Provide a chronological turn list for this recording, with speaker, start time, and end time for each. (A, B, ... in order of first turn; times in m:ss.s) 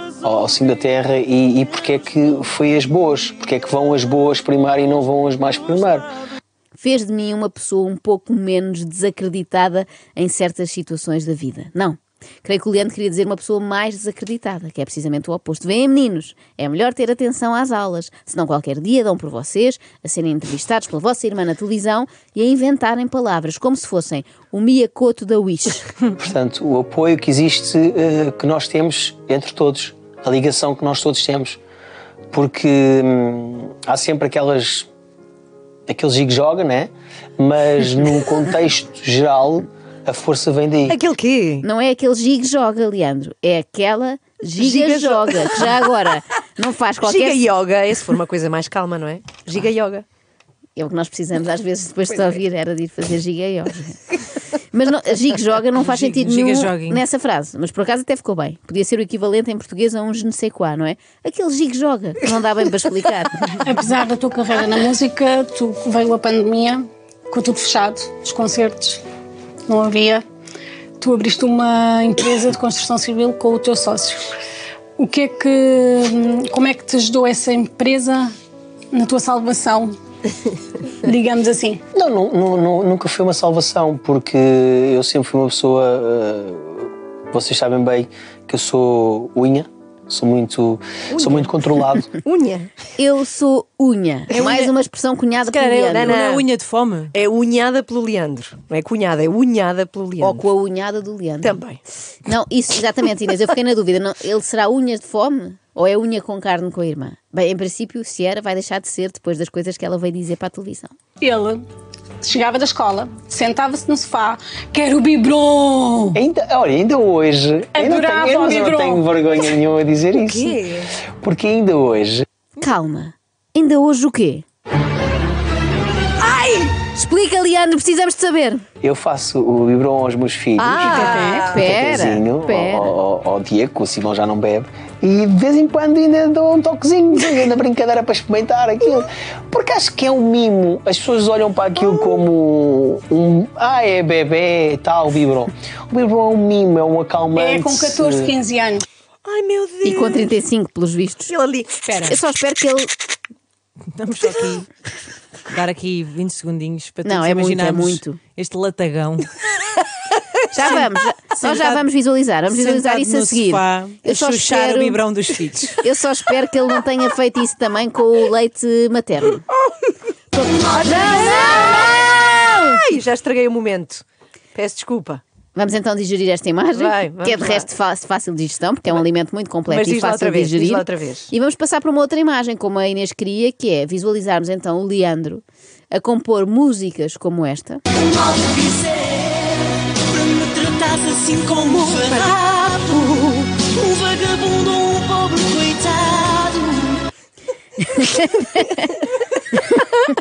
0:00.2-0:06.1 A
0:06.8-0:25.9 B
0:26.2-0:31.6 A
0:32.3-0:34.9 A
0:35.9-0:41.0 A
0:40.9-0:41.6 C
0:41.6-0:47.5 B
0:44.5-0:45.8 C
0:47.0-0:50.0 C
0:50.8-0:54.0 B
0:54.7-1:03.6 B
0:55.8-0:57.0 D
1:03.6-1:09.0 E
1:09.7-1:10.2 E
1:11.0-1:14.3 E
1:15.0-1:18.3 E
1:18.9-1:20.0 E
1:21.0-1:21.8 E
1:21.9-1:32.1 A
1:31.1-1:31.5 C
1:32.1-1:32.7 C
1:33.0-1:36.2 B
1:34.3-1:34.7 C
1:34.3-1:34.6 D
1:35.5-1:37.2 D
1:35.9-1:36.5 C
1:37.1-1:40.4 C
1:40.2-1:41.6 B
1:41.4-1:41.8 C
1:42.2-1:50.9 B
1:51.2-1:51.6 E
1:52.2-1:56.2 E
1:56.2-2:00.6 A
1:57.8-1:59.0 E
2:00.2-2:00.9 C
2:01.2-2:02.2 A
2:02.6-2:04.4 B
2:06.2-2:06.7 C
2:06.8-2:08.6 B
2:08.8-2:28.3 A
2:10.6-2:11.7 C
2:10.8-2:13.0 B
2:11.0-2:11.2 D
2:27.4-2:28.8 E
2:29.2-2:30.3 C
2:29.8-2:31.3 B
2:31.3-2:31.9 C
2:31.9-2:32.2 D
2:32.0-2:32.9 B
2:34.0-2:34.7 D
2:35.5-2:39.3 D
2:37.0-2:38.2 B
2:40.5-2:45.0 B
2:40.6-2:41.8 D
2:42.5-2:45.8 D
2:45.8-2:49.5 B
2:50.3-2:51.9 B
2:50.7-2:54.0 C
2:54.6-2:55.2 C
2:55.6-3:07.8 B
2:56.8-2:57.7 C
2:59.7-3:01.3 C
3:08.3-3:08.7 F
3:10.2-3:12.2 F
3:11.5-3:16.5 C
3:13.8-3:14.2 F
3:15.0-3:16.7 F
3:17.8-3:19.9 B